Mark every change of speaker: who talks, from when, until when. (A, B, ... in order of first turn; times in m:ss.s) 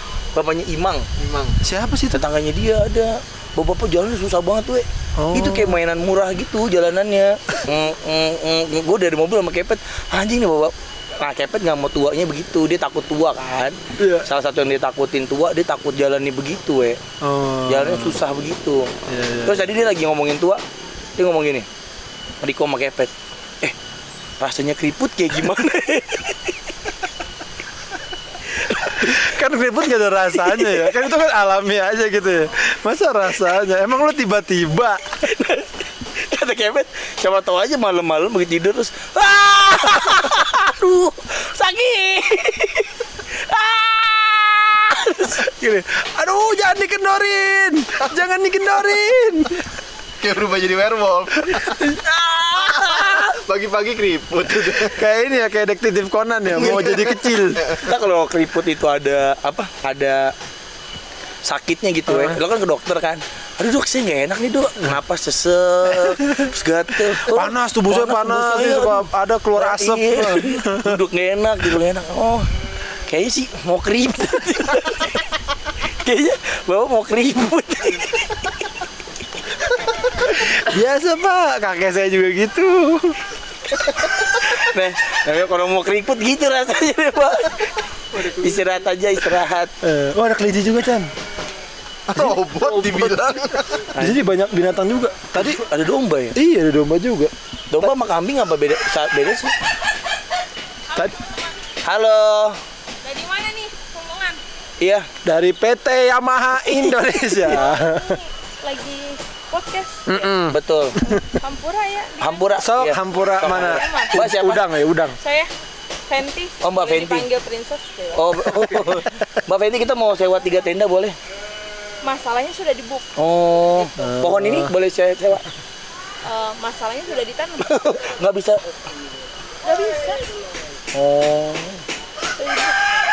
0:00.3-0:01.1 A
0:01.2-0:01.6 B
0:01.6-0:02.2 C
0:02.1-0:17.0 A
0:05.2-0:05.8 C
0:14.0-0:14.3 C
0:17.2-0:18.2 C
0:17.7-0:18.9 A
0:19.1-0:19.6 C
0:19.4-0:20.6 A
0:21.2-0:21.7 A
0:22.4-0:23.8 A
0:24.4-0:26.6 A
0:28.5-0:29.3 A
0:29.0-0:35.1 C
0:30.4-0:31.0 A
0:35.2-0:45.5 A
0:45.4-0:49.7 C
0:50.2-0:51.8 B
0:51.8-0:53.4 A
0:52.6-0:55.0 B
0:54.9-0:57.6 C
0:56.7-0:57.8 B
0:57.8-1:00.3 A
1:01.4-1:12.5 A
1:02.1-1:02.4 C
1:07.3-1:11.0 C
1:13.1-1:15.3 A
1:15.9-1:18.5 A
1:20.4-1:23.2 C
1:24.0-1:29.7 A
1:29.8-1:31.1 C
1:32.1-1:33.9 B
1:32.2-1:33.2 C
1:34.0-1:35.6 C
1:34.0-1:34.3 A
1:35.4-1:36.4 A
1:36.4-1:37.9 C
1:37.7-1:39.6 A
1:40.9-1:41.5 D
1:41.8-1:42.6 A
1:43.0-1:44.4 D
1:44.8-1:45.1 A
1:45.2-1:48.2 C
1:47.6-1:50.3 D
1:50.1-1:51.3 C
1:50.5-1:51.0 A
1:51.4-1:52.5 D
1:52.2-1:54.6 A
1:52.6-1:55.2 C
1:53.6-1:54.2 D
1:55.2-1:55.5 D
1:56.1-1:58.4 D
1:56.6-1:57.3 A
1:58.1-2:01.2 A
2:02.0-2:03.1 D
2:03.2-2:05.4 A
2:04.0-2:04.7 C
2:06.2-2:07.9 D
2:07.6-2:08.6 A
2:09.6-2:10.3 D
2:10.9-2:11.8 A
2:12.4-2:12.8 D